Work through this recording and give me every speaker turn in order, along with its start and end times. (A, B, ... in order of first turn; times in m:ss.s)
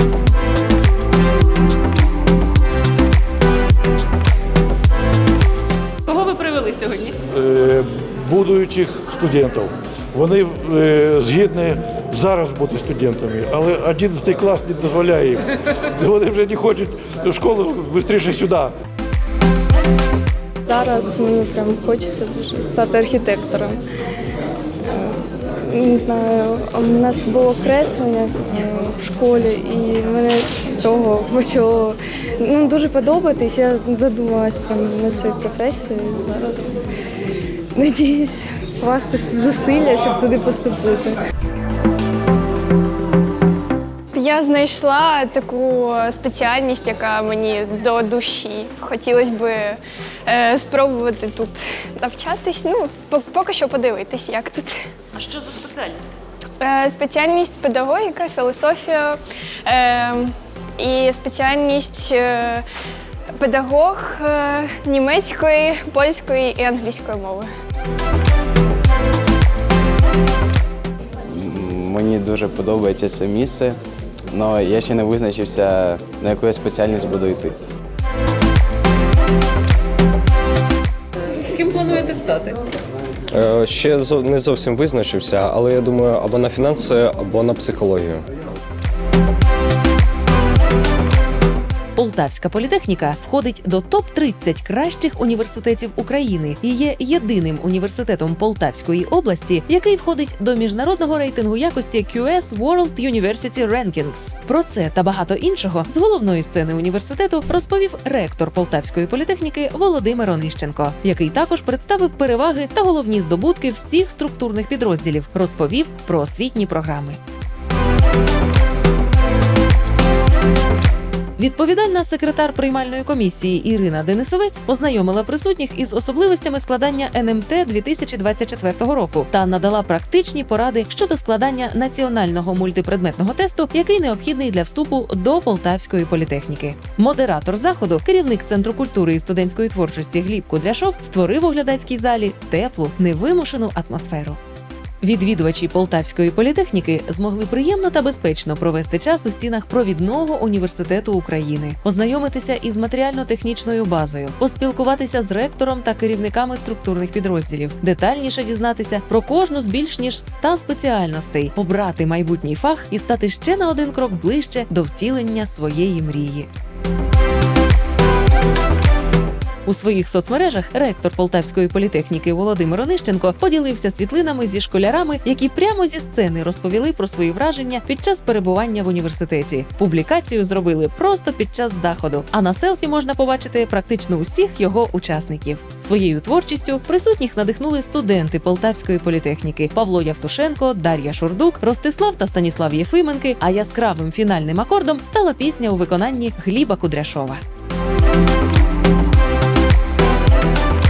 0:06.1-0:07.2 A
0:07.2-0:18.7 B
0:20.7-0:23.8 C
0:24.9-0:36.8 C
0:37.8-0:41.2 C
0:44.1-0:54.9 D
0:55.2-0:56.1 A
0:56.6-1:02.6 D
1:03.4-1:07.5 D
1:11.4-1:13.8 E
1:14.3-1:17.6 E
1:21.3-1:22.6 A
1:23.3-1:28.2 F
1:32.0-1:57.2 A
2:01.4-2:24.4 A
2:25.0-2:46.5 A
2:49.7-3:17.4 A